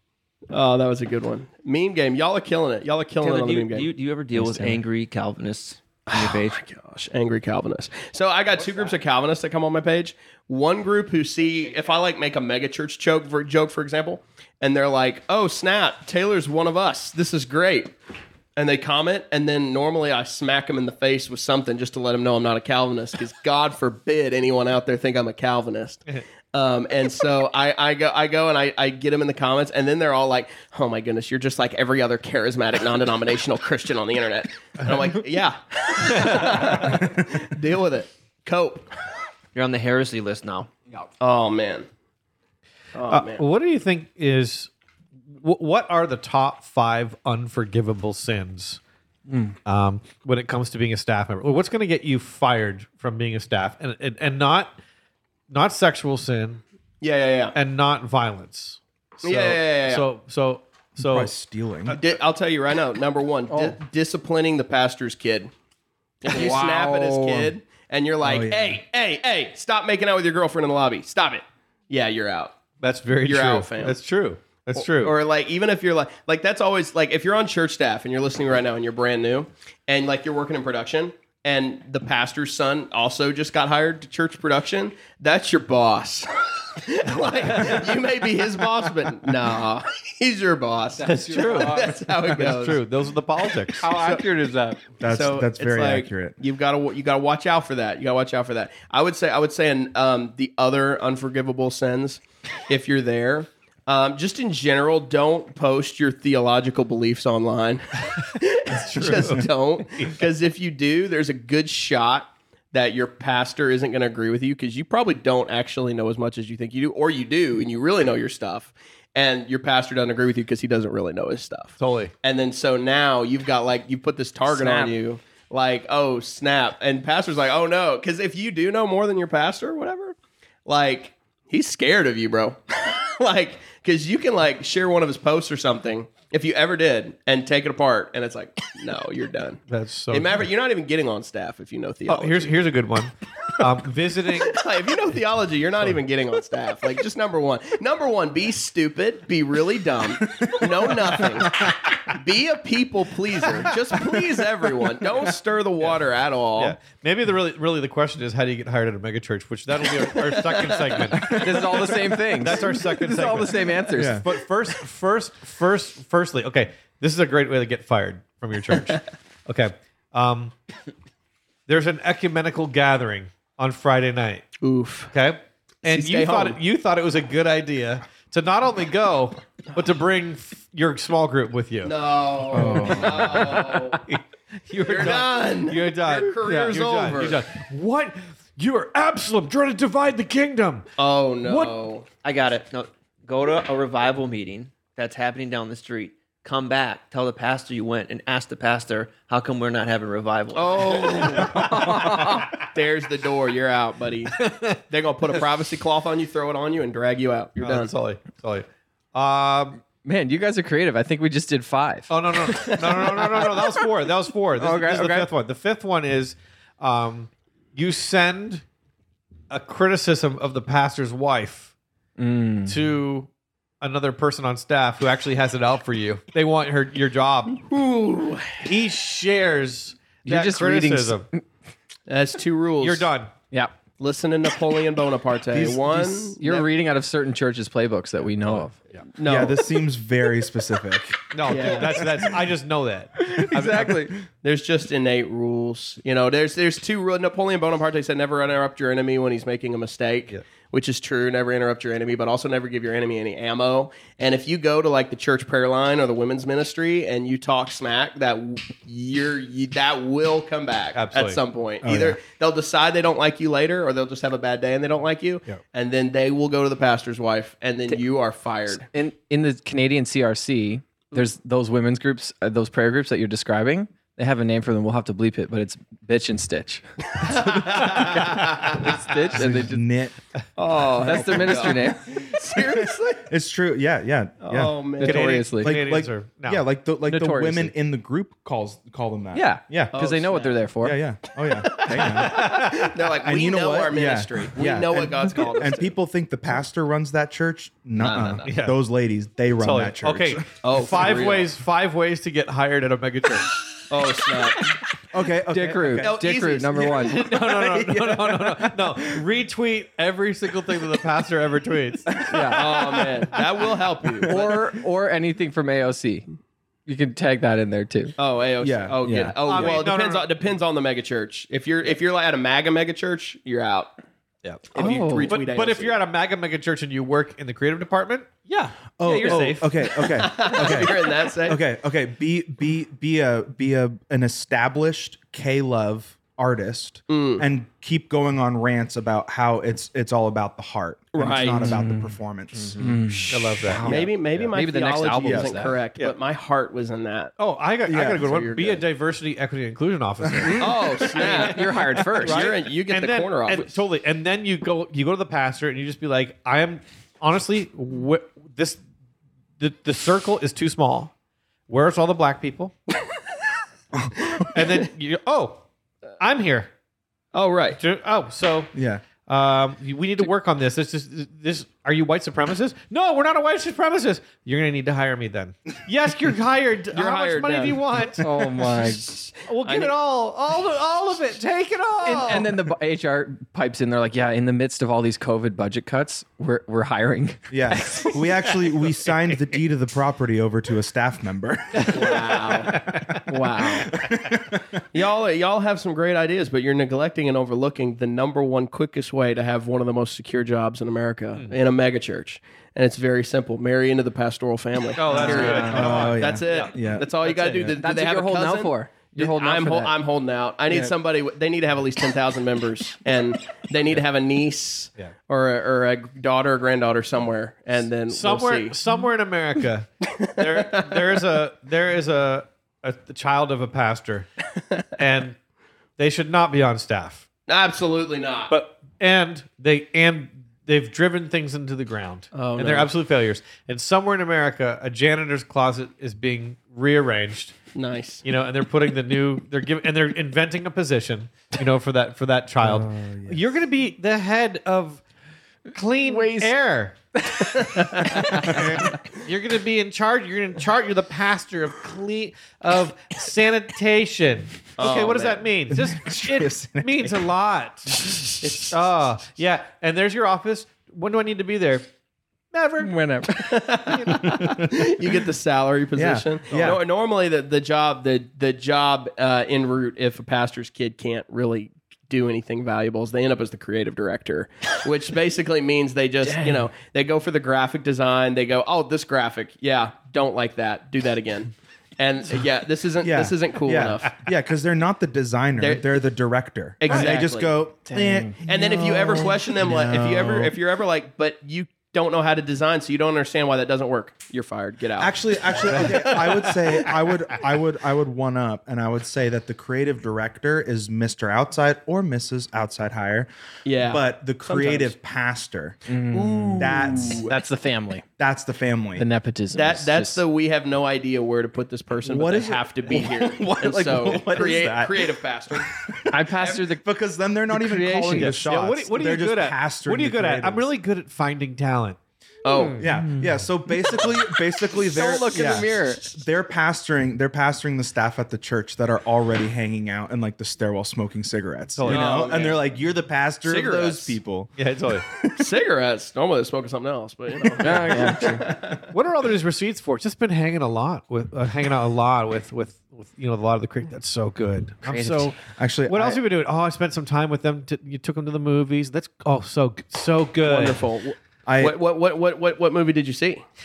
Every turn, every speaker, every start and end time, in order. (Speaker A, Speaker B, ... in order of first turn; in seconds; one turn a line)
Speaker A: 0.5-3.9
Speaker B: 3.2-6.6
Speaker C: 4.3-4.8
Speaker A: 6.1-17.9
Speaker A: 18.6-38.9
Speaker B: 39.5-40.7
Speaker A: 41.2-41.9
Speaker A: 42.9-43.4
Speaker D: 43.1-44.7
Speaker D: 45.3-48.8
Speaker C: 49.3-49.6
Speaker D: 49.7-54.8
Speaker D: 55.5-56.6
Speaker A: 57.0-57.5
Speaker D: 57.5-61.3
Speaker A: 59.2-60.0
Speaker E: 61.0-62.0
Speaker A: 61.9-65.5
Speaker C: 63.5-63.8
Speaker A: 66.2-72.6
Speaker C: 66.3-67.5
Speaker E: 68.2-68.8
Speaker D: 72.8-75.2
Speaker A: 73.2-74.0
Speaker A: 74.8-92.8
Speaker C: 91.0-92.0
Speaker D: 91.0-94.1
Speaker C: 93.8-94.8
Speaker A: 93.9-94.2
Speaker E: 95.0-96.4
Speaker A: 95.0-130.2
Speaker D: 108.7-110.2
Speaker E: 109.0-109.3
Speaker D: 121.8-122.1
Speaker C: 124.5-124.9
Speaker A: 130.7-142.6
Speaker D: 139.7-140.5
Speaker D: 142.1-144.6
Speaker A: 144.5-156.8
Speaker D: 156.6-170.5
Speaker A: 160.5-161.3
Speaker C: 161.2-164.2
Speaker E: 164.0-164.3
Speaker D: 171.7-174.4
Speaker A: 174.6-175.1
Speaker D: 175.1-181.9
Speaker A: 175.9-176.6
Speaker A: 181.8-184.0
Speaker E: 182.5-183.4
Speaker D: 182.6-190.9
Speaker A: 184.9-187.4
Speaker A: 191.0-192.1
Speaker D: 191.4-191.7
Speaker B: 192.2-201.0
Speaker A: 200.5-201.6
Speaker C: 201.5-202.5
Speaker A: 202.7-204.4
Speaker D: 204.4-204.8
Speaker A: 204.9-207.9
Speaker D: 207.6-209.8
Speaker C: 210.0-213.5
Speaker D: 212.1-218.6
Speaker C: 214.6-215.3
Speaker D: 219.5-221.7
Speaker C: 222.2-222.9
Speaker D: 222.7-223.3
Speaker D: 223.8-227.6
Speaker A: 227.7-228.7
Speaker D: 228.6-231.3
Speaker C: 230.2-231.4
Speaker A: 232.1-233.1
Speaker D: 232.8-233.3
Speaker A: 234.0-236.7
Speaker E: 235.5-236.4
Speaker C: 236.4-238.8
Speaker D: 238.4-239.1
Speaker A: 239.2-239.6
Speaker E: 239.2-242.3
Speaker D: 241.3-244.1
Speaker A: 241.5-242.0
Speaker C: 243.3-244.1
Speaker A: 244.4-268.9
Speaker D: 260.9-261.4
Speaker E: 261.8-262.2
Speaker C: 268.9-279.8
Speaker E: 279.3-280.2
Speaker A: 280.6-283.3
Speaker C: 281.0-282.0
Speaker E: 281.4-281.7
Speaker E: 283.2-289.9
Speaker A: 284.4-285.5
Speaker C: 285.0-285.8
Speaker D: 285.0-286.6
Speaker C: 287.1-287.7
Speaker C: 289.3-291.0
Speaker A: 289.9-290.6
Speaker E: 290.8-292.6
Speaker A: 291.7-295.9
Speaker D: 292.3-292.9
Speaker E: 293.2-300.4
Speaker A: 298.0-298.5
Speaker D: 298.4-298.8
Speaker D: 299.6-303.6
Speaker A: 300.6-301.5
Speaker A: 303.9-304.8
Speaker E: 305.1-306.2
Speaker C: 305.5-307.2
Speaker A: 306.0-307.2
Speaker D: 307.0-312.6
Speaker E: 307.3-309.2
Speaker C: 312.1-312.7
Speaker A: 312.5-314.5
Speaker C: 314.3-316.3
Speaker C: 316.9-318.1
Speaker A: 318.2-323.9
Speaker E: 318.6-319.7
Speaker D: 319.4-320.3
Speaker D: 324.4-329.9
Speaker A: 324.7-326.0
Speaker C: 324.8-325.3
Speaker E: 329.0-343.0
Speaker A: 330.1-331.6
Speaker A: 337.1-337.5
Speaker A: 341.1-341.7
Speaker C: 341.5-342.1
Speaker C: 342.8-345.8
Speaker D: 343.3-344.5
Speaker A: 343.8-347.3
Speaker E: 345.1-345.6
Speaker D: 347.4-358.8
Speaker E: 347.9-348.3
Speaker A: 348.2-348.8
Speaker C: 350.4-352.4
Speaker A: 350.6-353.7
Speaker D: 359.6-361.1
Speaker D: 361.7-362.7
Speaker E: 363.9-364.3
Speaker D: 364.5-365.6
Speaker D: 366.2-366.7
Speaker A: 367.3-367.8
Speaker D: 367.8-378.3
Speaker E: 368.7-369.0
Speaker A: 376.9-377.8
Speaker C: 378.2-379.1
Speaker A: 378.7-379.9
Speaker D: 379.5-382.6
Speaker C: 382.0-388.2
Speaker E: 387.5-392.4
Speaker A: 391.9-392.7
Speaker D: 392.7-393.2
Speaker C: 393.3-393.8
Speaker A: 393.3-393.9
Speaker E: 393.9-394.6
Speaker A: 394.9-418.7
Speaker D: 404.9-407.7
Speaker C: 405.1-405.6
Speaker E: 405.5-407.1
Speaker C: 407.8-409.9
Speaker D: 418.1-424.3
Speaker A: 420.2-421.0
Speaker D: 425.0-425.4
Speaker D: 426.0-427.2
Speaker A: 427.5-428.5
Speaker D: 428.5-437.6
Speaker A: 432.3-432.9
Speaker A: 437.7-438.2
Speaker D: 438.2-445.0
Speaker E: 442.6-443.5
Speaker D: 445.7-446.9
Speaker C: 446.1-446.5
Speaker C: 447.3-448.6
Speaker D: 448.4-461.9
Speaker A: 454.8-455.5
Speaker E: 455.7-457.2
Speaker D: 462.5-462.9
Speaker C: 462.8-463.8
Speaker A: 463.5-464.2
Speaker D: 463.9-464.3
Speaker E: 464.3-464.7
Speaker A: 464.7-484.1
Speaker E: 465.9-466.8
Speaker C: 476.2-476.6
Speaker E: 483.0-490.5
Speaker A: 485.6-485.9
Speaker A: 486.8-487.5
Speaker D: 486.9-487.1
Speaker C: 487.9-488.4
Speaker A: 488.4-496.9
Speaker E: 495.0-503.3
Speaker A: 503.6-504.9
Speaker E: 503.8-505.8
Speaker C: 505.9-508.0
Speaker A: 506.1-507.3
Speaker E: 506.6-507.2
Speaker E: 508.2-509.1
Speaker C: 509.0-510.2
Speaker A: 509.6-515.7
Speaker E: 512.0-515.9
Speaker C: 516.1-516.9
Speaker E: 516.8-520.7
Speaker C: 517.5-518.4
Speaker D: 518.2-522.0
Speaker A: 522.5-522.8
Speaker D: 522.5-522.9
Speaker E: 522.8-534.5
Speaker C: 524.8-526.1
Speaker D: 531.8-532.4
Speaker A: 531.9-532.6
Speaker A: 533.4-534.2
Speaker D: 534.6-535.0
Speaker A: 535.3-538.8
Speaker C: 537.6-538.5
Speaker D: 538.9-545.4
Speaker C: 544.8-545.4
Speaker E: 545.6-546.2
Speaker D: 545.9-550.9
Speaker A: 550.4-553.4
Speaker E: 551.5-551.8